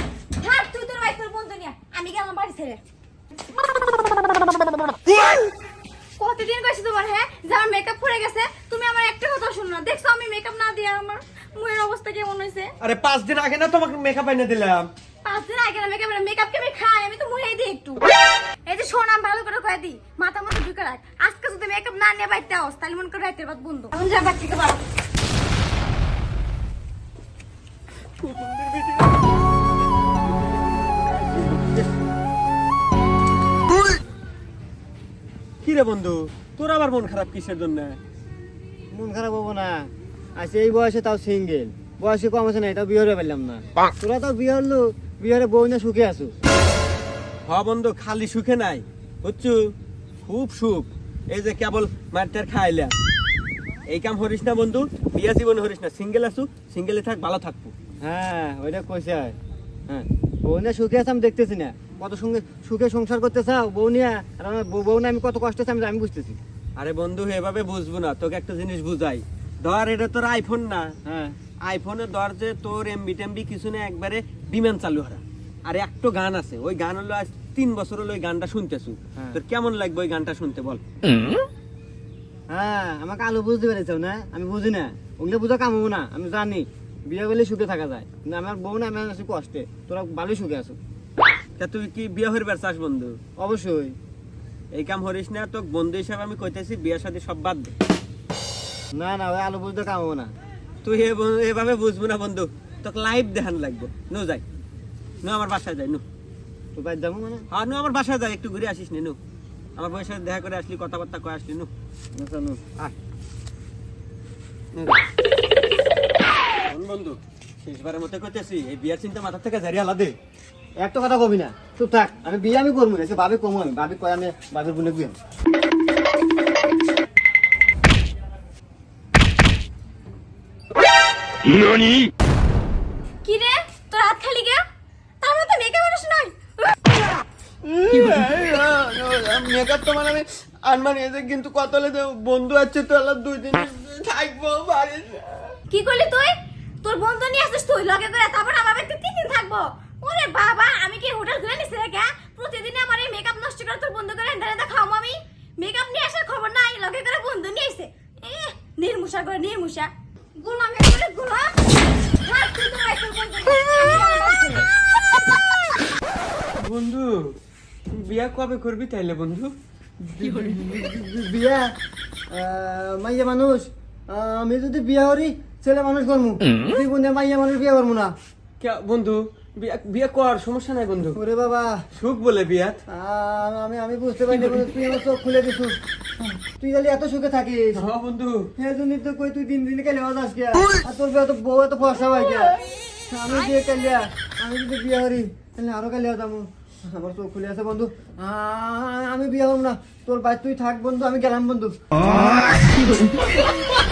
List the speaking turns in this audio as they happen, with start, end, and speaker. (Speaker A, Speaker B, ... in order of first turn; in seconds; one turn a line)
Speaker A: 0.4-2.8
Speaker A: 6.2-12.7
Speaker B: 12.8-14.9
Speaker A: 15.2-18.1
Speaker A: 18.6-24.8
Speaker B: 28.2-29.2
Speaker B: 31.1-31.9
Speaker B: 35.6-38.0
Speaker C: 38.9-46.3
Speaker B: 47.5-49.7
Speaker B: 50.2-52.9
Speaker B: 53.9-57.7
Speaker C: 58.0-59.3
Speaker C: 59.9-66.4
Speaker B: 66.8-70.9
Speaker C: 71.0-71.3
Speaker B: 71.6-80.8
Speaker C: 82.5-90.8
Speaker B: 91.6-93.1
Speaker C: 93.4-94.0
Speaker B: 94.7-97.7
Speaker C: 99.0-100.3
Speaker B: 100.8-104.4
Speaker B: 105.2-106.0
Speaker C: 106.7-107.5
Speaker B: 107.5-109.2
Speaker B: 109.8-111.7
Speaker C: 112.2-112.6
Speaker B: 116.7-120.2
Speaker C: 120.8-125.2
Speaker A: 133.2-134.6
Speaker A: 135.2-136.3
Speaker B: 137.6-145.6
Speaker A: 145.7-161.5
Speaker A: 162.2-164.7
Speaker B: 166.6-167.3
Speaker B: 167.9-169.5
Speaker C: 170.1-171.7
Speaker C: 172.3-178.1
Speaker B: 178.6-181.2
Speaker C: 181.1-181.8
Speaker B: 181.9-182.8
Speaker C: 182.9-185.8
Speaker B: 184.3-184.7
Speaker C: 186.4-187.8
Speaker B: 187.7-188.5
Speaker C: 188.6-202.0